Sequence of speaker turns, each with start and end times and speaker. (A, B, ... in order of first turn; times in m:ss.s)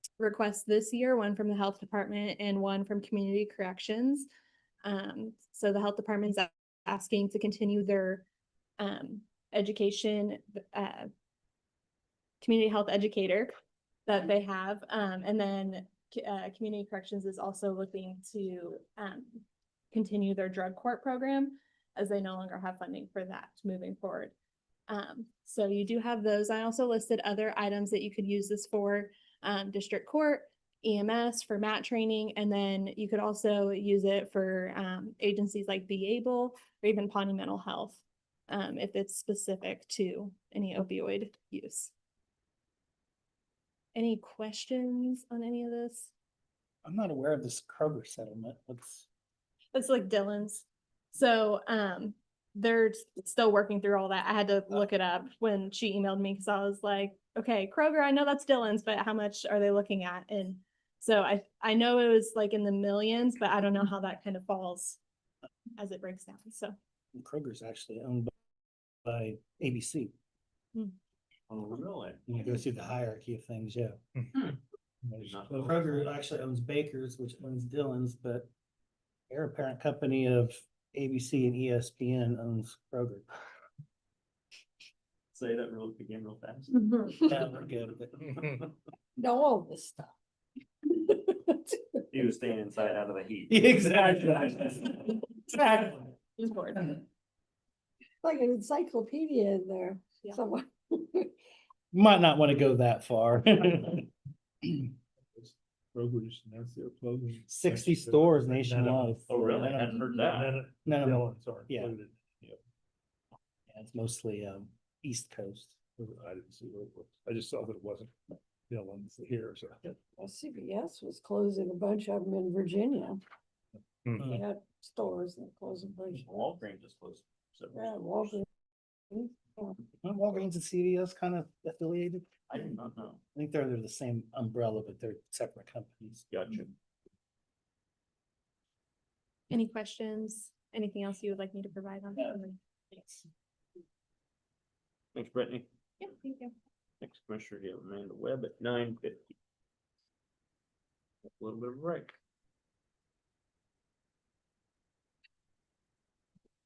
0:00.2-0:04.3 A
0:04.8-0:08.2 A
0:08.8-0:11.1 A
0:12.4-0:13.5 A
0:14.1-0:24.3 A
0:24.9-0:41.9 A
0:43.9-0:46.1 A
0:46.8-0:49.1 B
0:49.7-1:05.0 A
1:05.8-1:06.7 A
1:07.1-1:08.3 B
1:09.0-1:10.1 B
1:11.5-1:12.2 C
1:12.3-1:14.0 B
1:15.0-1:16.1 D
1:15.2-1:16.0 C
1:15.6-1:18.5 B
1:19.3-1:23.3 B
1:25.3-1:27.6 C
1:27.2-1:28.3 B
1:29.2-1:30.1 E
1:30.9-1:32.0 E
1:32.1-1:35.0 C
1:33.5-1:36.0 B
1:36.4-1:36.9 A
1:38.2-1:41.3 E
1:41.9-1:44.0 B
1:45.3-1:52.6 D
1:47.5-1:50.2 B
1:49.3-1:50.6 C
1:50.8-1:51.9 B
1:53.7-1:55.8 B
1:56.0-1:58.1 D
1:58.7-2:00.0 D
2:00.1-2:03.2 E
2:04.2-2:06.3 E
2:06.1-2:08.4 C
2:07.7-2:08.4 E
2:09.1-2:09.8 E
2:10.0-2:12.3 B
2:12.5-2:13.2 C
2:13.3-2:16.2 B
2:16.3-2:16.7 C
2:19.5-2:23.2 A
2:25.1-2:25.7 C
2:26.0-2:26.5 A
2:27.0-2:29.3 C
2:31.3-2:32.2 C